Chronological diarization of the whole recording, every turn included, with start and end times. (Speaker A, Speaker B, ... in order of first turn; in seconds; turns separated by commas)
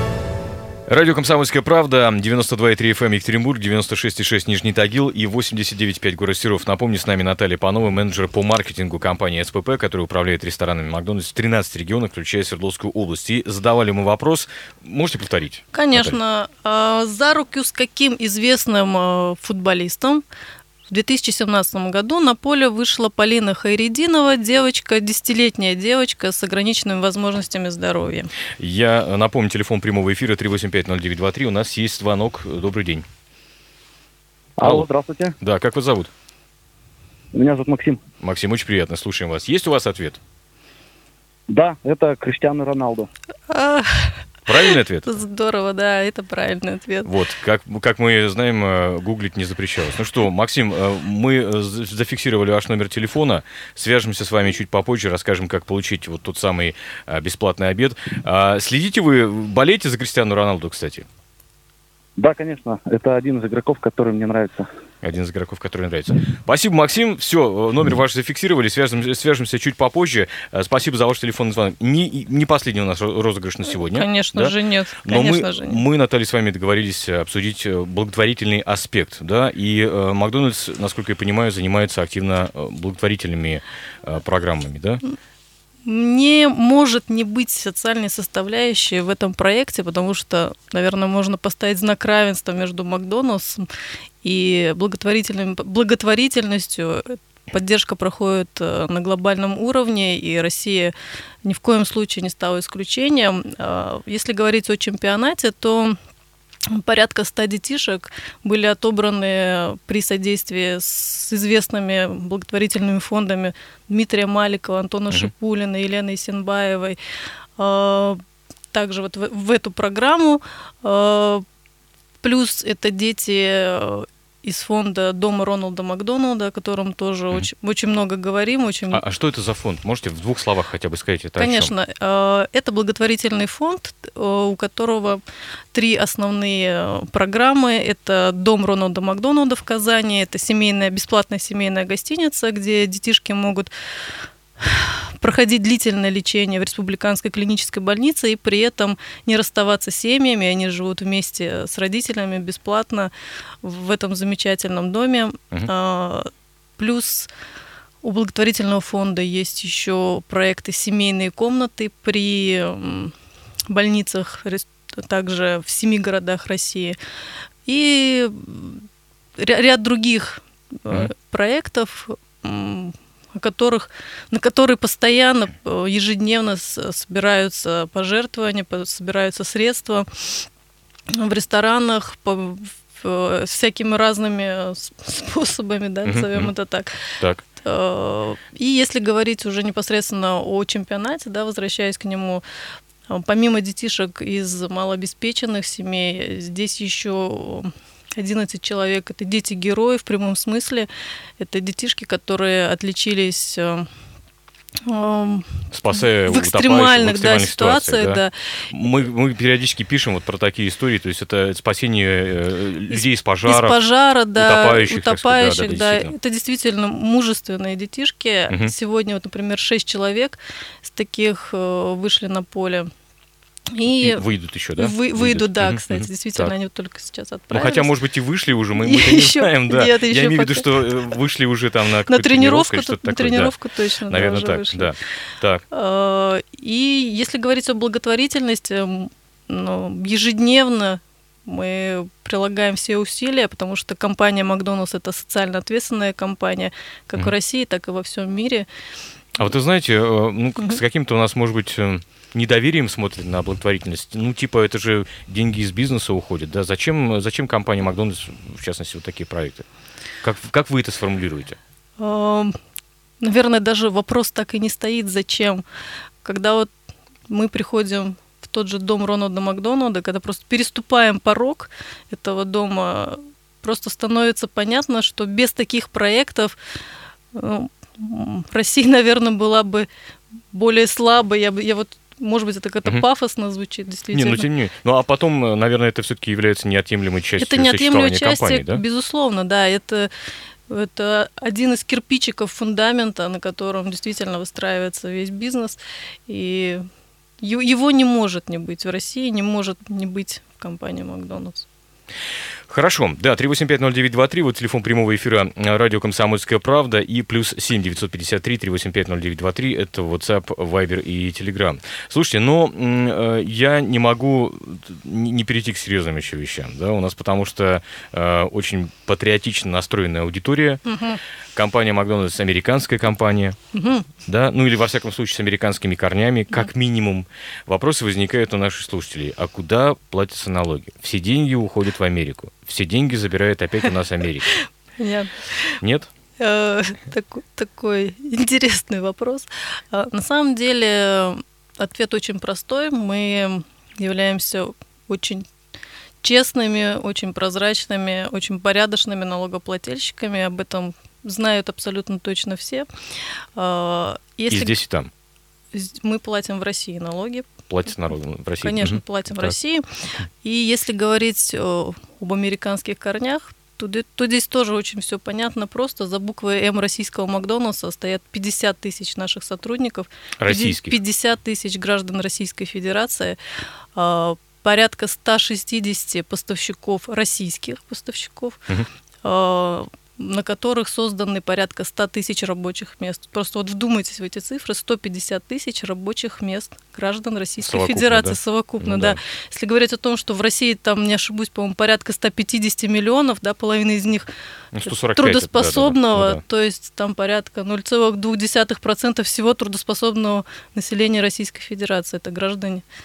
Speaker A: 0.9-16.2, Speaker B: 15.7-20.2, Speaker B: 20.9-28.3, Speaker A: 28.6-33.1, Speaker C: 34.6-35.4, Speaker A: 35.4-36.1, Speaker C: 37.3-38.0, Speaker A: 38.2-40.2, Speaker C: 41.5-43.1, Speaker B: 43.5-44.2, Speaker A: 44.5-45.2, Speaker B: 45.0-47.1, Speaker A: 47.0-61.1, Speaker C: 62.2-64.7, Speaker A: 65.0-85.0, Speaker B: 73.9-75.8, Speaker B: 85.8-93.7, Speaker B: 94.2-100.9, Speaker B: 101.5-106.0, Speaker B: 106.7-117.0, Speaker B: 117.6-118.2, Speaker B: 118.7-121.4, Speaker B: 122.2-129.0, Speaker A: 128.9-131.7, Speaker B: 131.4-135.2, Speaker B: 135.7-143.7, Speaker B: 144.6-153.1, Speaker B: 153.6-157.3, Speaker B: 158.0-163.1, Speaker B: 163.7-166.9, Speaker B: 167.7-168.8, Speaker B: 169.4-180.5, Speaker B: 181.1-187.1, Speaker A: 186.1-186.5, Speaker B: 187.6-192.4, Speaker B: 193.1-203.9, Speaker B: 204.9-208.3, Speaker A: 205.7-213.8, Speaker B: 212.9-222.9, Speaker A: 214.3-216.1, Speaker B: 223.7-224.2, Speaker A: 224.0-226.5, Speaker B: 224.8-227.9, Speaker A: 227.5-233.5, Speaker B: 228.8-230.9, Speaker B: 232.1-234.9, Speaker A: 234.1-235.6, Speaker B: 235.7-248.7, Speaker A: 249.4-259.7, Speaker A: 260.2-261.6, Speaker B: 262.0-262.6, Speaker B: 263.2-265.6, Speaker B: 266.2-266.7, Speaker B: 267.3-276.6, Speaker B: 277.3-279.9, Speaker B: 280.5-284.5, Speaker A: 284.1-288.8, Speaker B: 287.4-290.1, Speaker B: 290.7-296.9, Speaker B: 297.4-301.7, Speaker A: 302.7-320.8, Speaker B: 320.9-321.2, Speaker A: 321.6-323.6, Speaker B: 323.7-324.1, Speaker A: 324.2-334.5, Speaker B: 334.5-335.8, Speaker A: 335.8-336.1, Speaker B: 336.4-345.5, Speaker B: 346.2-352.9, Speaker B: 353.6-354.8, Speaker A: 354.5-355.1, Speaker B: 355.7-357.5, Speaker A: 357.7-359.5, Speaker B: 358.6-359.9, Speaker B: 360.4-373.4, Speaker A: 370.4-371.0, Speaker B: 374.0-378.6, Speaker B: 379.2-394.3, Speaker A: 387.6-389.2, Speaker A: 394.7-396.4, Speaker B: 395.1-402.9